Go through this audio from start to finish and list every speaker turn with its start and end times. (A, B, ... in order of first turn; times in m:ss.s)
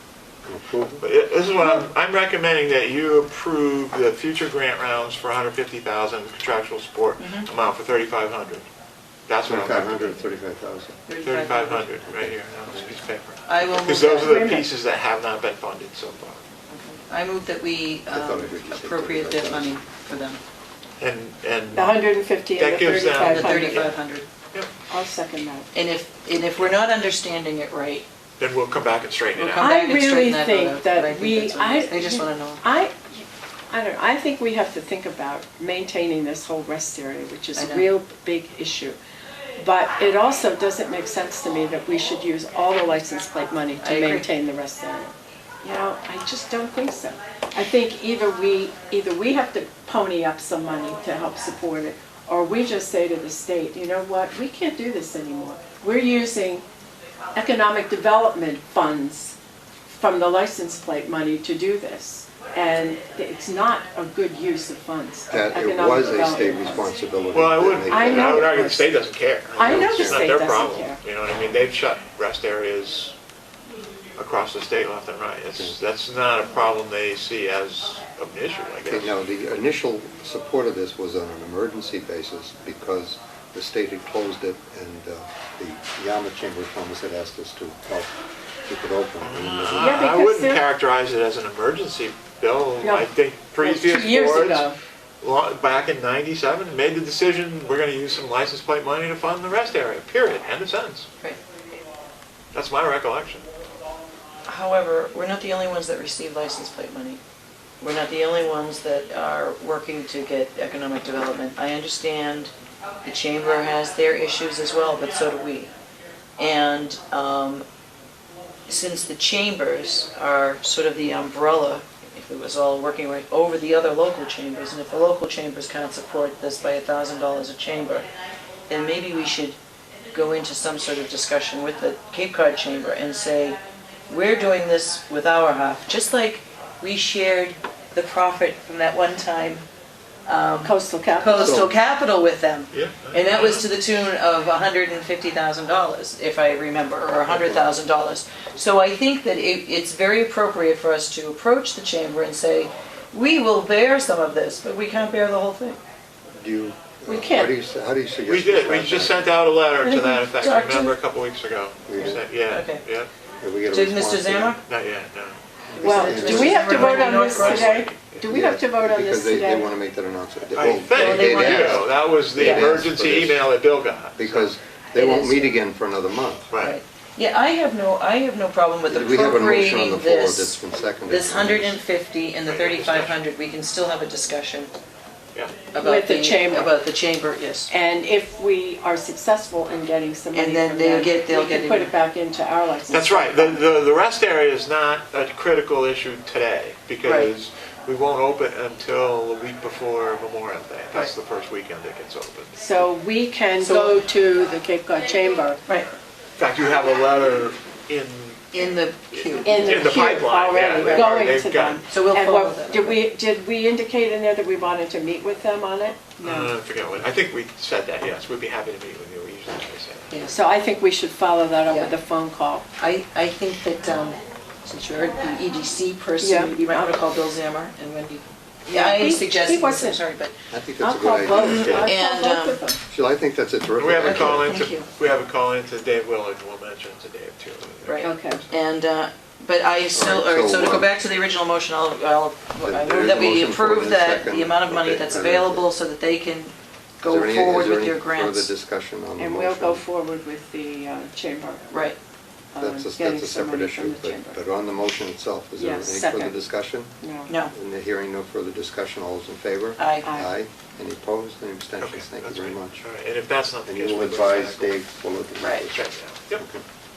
0:00.4-0:01.0 A
0:01.0-0:08.7 B
0:07.2-0:07.5 C
0:09.3-0:10.2 B
0:09.4-0:11.0 A
0:11.1-0:11.9 C
0:11.2-0:16.4 B
0:12.1-0:12.9 A
0:13.5-0:14.4 C
0:14.2-0:14.7 D
0:16.7-0:20.4 C
0:18.1-0:19.8 A
0:21.0-0:22.0 B
0:21.7-0:23.9 D
0:22.6-0:24.0 B
0:23.2-0:24.3 C
0:24.9-0:25.7 D
0:25.7-0:28.1 C
0:28.4-0:29.7 B
0:29.4-0:32.6 C
0:29.6-0:39.0 D
0:37.6-0:37.9 C
0:39.6-0:56.6 D
0:43.8-0:44.3 C
0:57.4-1:06.9 D
1:05.3-1:08.6 A
1:07.3-1:13.1 B
1:07.9-1:08.9 D
1:09.6-1:11.0 D
1:09.6-1:10.2 A
1:14.2-1:19.2 B
1:18.9-1:28.1 A
1:28.6-1:30.1 A
1:29.2-1:34.7 B
1:29.8-1:30.6 D
1:32.8-1:34.8 D
1:35.2-1:41.1 B
1:42.5-1:43.5 B
1:44.5-1:47.2 C
1:47.8-1:52.5 C
1:53.0-1:55.7 C
1:56.4-1:57.6 C
1:58.7-2:08.1 C
2:08.7-2:09.6 C
2:10.1-2:19.7 C
2:20.3-2:35.8 C
2:20.6-2:21.7 D
2:21.4-2:21.7 A
2:22.7-2:23.7 B
2:27.3-2:27.7 A
2:36.3-2:39.2 A
2:37.1-2:37.5 D
2:38.3-2:43.1 B
2:39.8-2:40.3 D
2:40.3-2:41.0 C
2:41.9-2:42.2 A
2:42.0-2:42.8 C
2:43.4-2:44.6 A
2:43.7-2:44.6 C
2:44.7-2:45.4 B
2:45.7-2:46.7 A
2:45.7-2:47.8 C
2:45.8-2:49.7 D
2:46.2-2:48.2 B
2:48.2-2:53.5 A
2:50.6-2:54.5 B
2:50.9-2:52.8 C
2:54.2-2:56.5 A
2:55.0-2:55.6 C
2:56.5-2:56.8 B
2:56.6-3:04.7 C
2:58.9-3:01.8 A
3:02.5-3:03.2 B
3:05.7-3:07.7 C
3:05.8-3:06.8 D
3:07.7-3:13.7 D
3:10.4-3:11.9 C
3:12.9-3:22.6 B
3:17.0-3:17.3 C
3:22.5-3:25.6 D
3:23.6-3:24.1 C
3:26.4-3:28.6 B
3:28.5-3:30.0 C
3:29.1-3:31.8 B
3:29.4-3:36.5 D
3:30.8-3:31.1 C
3:31.9-3:33.0 C
3:36.2-3:40.1 B
3:40.1-3:40.4 C
3:40.3-3:42.7 D
3:41.7-3:41.9 C
3:42.8-3:50.3 C
3:46.2-3:46.6 D
3:48.7-3:50.0 D
3:50.5-3:51.9 A
3:50.8-3:52.8 D
3:51.3-3:52.6 C
3:51.6-3:51.9 B
3:52.9-3:54.5 A
3:53.8-3:58.4 B
3:54.5-3:54.9 C
3:57.9-4:08.5 C
3:58.0-3:58.4 D
3:59.9-4:00.9 A
4:02.6-4:05.7 A
4:07.0-4:09.8 A
4:09.2-4:11.9 D
4:11.7-4:12.0 C
4:12.5-4:14.4 D
4:12.6-4:16.9 A
4:15.6-4:16.4 D
4:17.0-4:17.4 D
4:17.3-4:17.5 C
4:17.5-4:22.8 A
4:19.8-4:20.1 C
4:20.0-4:20.3 D
4:21.8-4:24.8 B
4:23.6-4:26.6 A
4:25.4-4:25.7 C
4:25.7-4:26.4 B